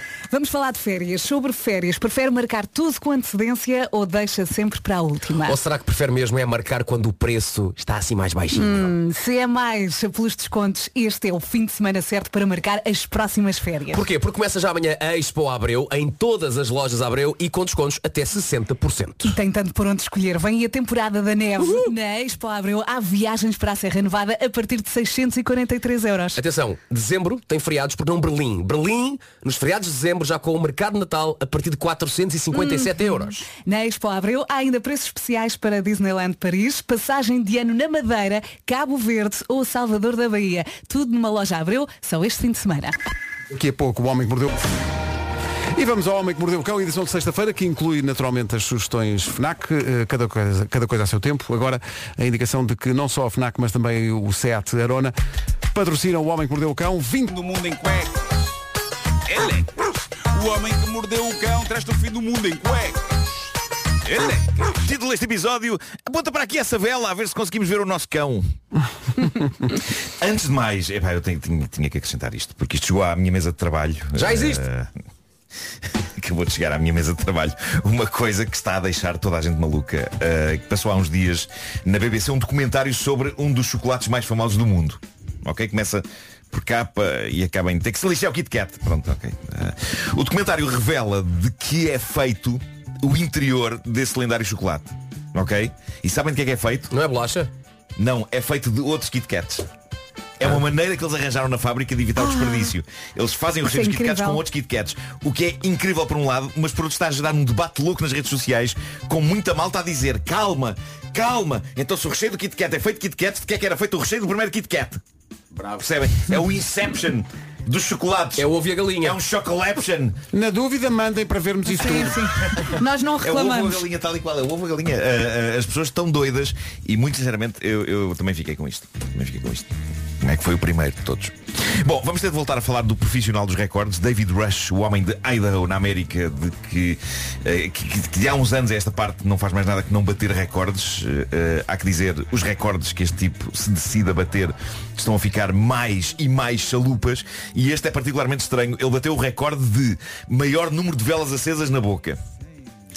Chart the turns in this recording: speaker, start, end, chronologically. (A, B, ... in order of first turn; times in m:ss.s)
0:00.3-0:05.6 A
0:05.4-0:08.9 B
0:08.5-0:14.0 A
0:13.9-0:19.4 B
0:19.3-0:26.4 A
0:21.6-0:21.9 B
0:26.4-0:33.5 B
0:32.5-0:43.0 A
0:43.5-0:44.7 C
0:45.8-0:55.2 C
0:55.7-0:57.4 C
0:57.3-0:58.4 D
0:59.3-1:03.0 D
1:04.0-1:04.8 D
1:04.8-1:08.5 E
1:09.7-1:14.9 E
1:14.2-1:14.6 B
1:16.2-1:36.9 E
1:36.9-1:37.5 B
1:38.0-1:39.7 E
1:40.4-1:55.0 E
1:42.2-1:42.7 A
1:43.6-1:44.4 A
1:55.7-2:00.2 E
1:58.4-1:59.2 B
2:00.3-2:02.3 C
2:01.7-2:03.8 A
2:03.2-2:32.2 E